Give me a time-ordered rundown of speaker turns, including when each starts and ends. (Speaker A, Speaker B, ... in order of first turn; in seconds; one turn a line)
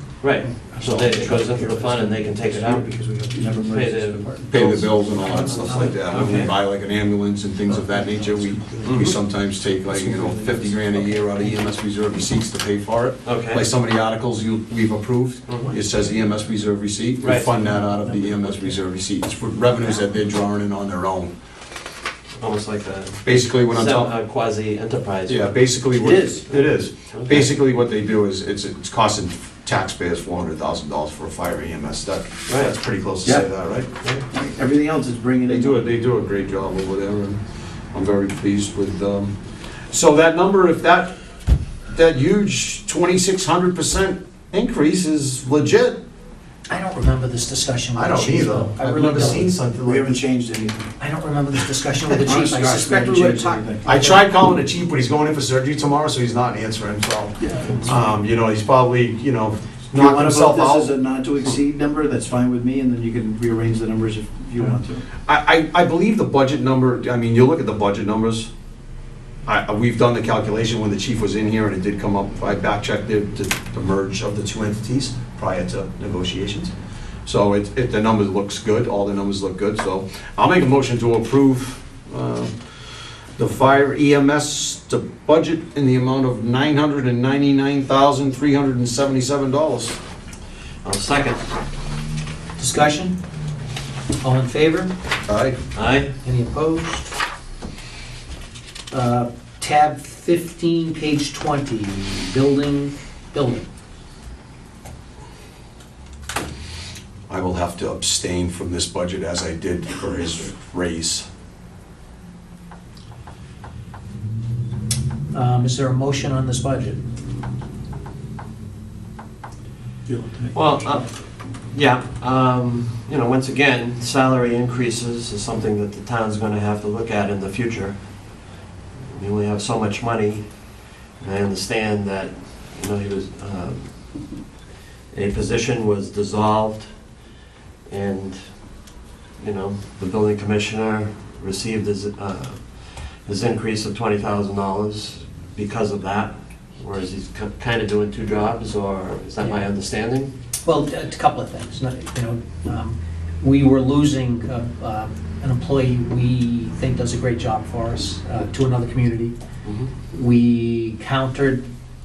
Speaker A: 0.2-2.9
Speaker B: 0.7-6.1
Speaker A: 3.6-4.8
Speaker C: 4.5-21.3
Speaker D: 5.2-6.1
Speaker A: 5.6-6.5
Speaker B: 7.7-11.8
Speaker A: 8.8-9.2
Speaker A: 13.2-13.6
Speaker A: 15.5-15.7
Speaker B: 15.6-16.3
Speaker A: 17.2-17.5
Speaker B: 17.6-18.8
Speaker A: 22.4-25.6
Speaker C: 23.2-24.1
Speaker C: 25.3-33.9
Speaker B: 25.9-26.5
Speaker A: 27.1-27.5
Speaker A: 32.5-32.7
Speaker B: 34.3-35.9
Speaker C: 35.5-41.1
Speaker C: 41.9-46.0
Speaker D: 46.7-49.5
Speaker C: 48.0-50.2
Speaker B: 49.8-50.9
Speaker D: 51.0-54.2
Speaker B: 52.2-53.9
Speaker C: 53.9-60.9
Speaker B: 57.4-58.0
Speaker B: 59.9-65.0
Speaker C: 65.3-68.5
Speaker C: 69.5-76.7
Speaker C: 77.2-82.5
Speaker C: 83.4-90.0
Speaker A: 90.8-91.5
Speaker D: 92.6-93.2
Speaker D: 94.2-94.9
Speaker C: 95.3-95.6
Speaker A: 95.8-96.1
Speaker D: 96.2-97.2
Speaker D: 98.9-103.7
Speaker C: 107.3-111.3
Speaker D: 115.3-117.0
Speaker B: 120.1-121.0
Speaker A: 120.5-134.3
Speaker A: 135.1-136.9
Speaker A: 137.9-138.7
Speaker A: 139.4-150.3
Speaker D: 149.4-149.7
Speaker D: 150.7-159.3
Speaker A: 159.6-159.9
Speaker D: 160.1-161.7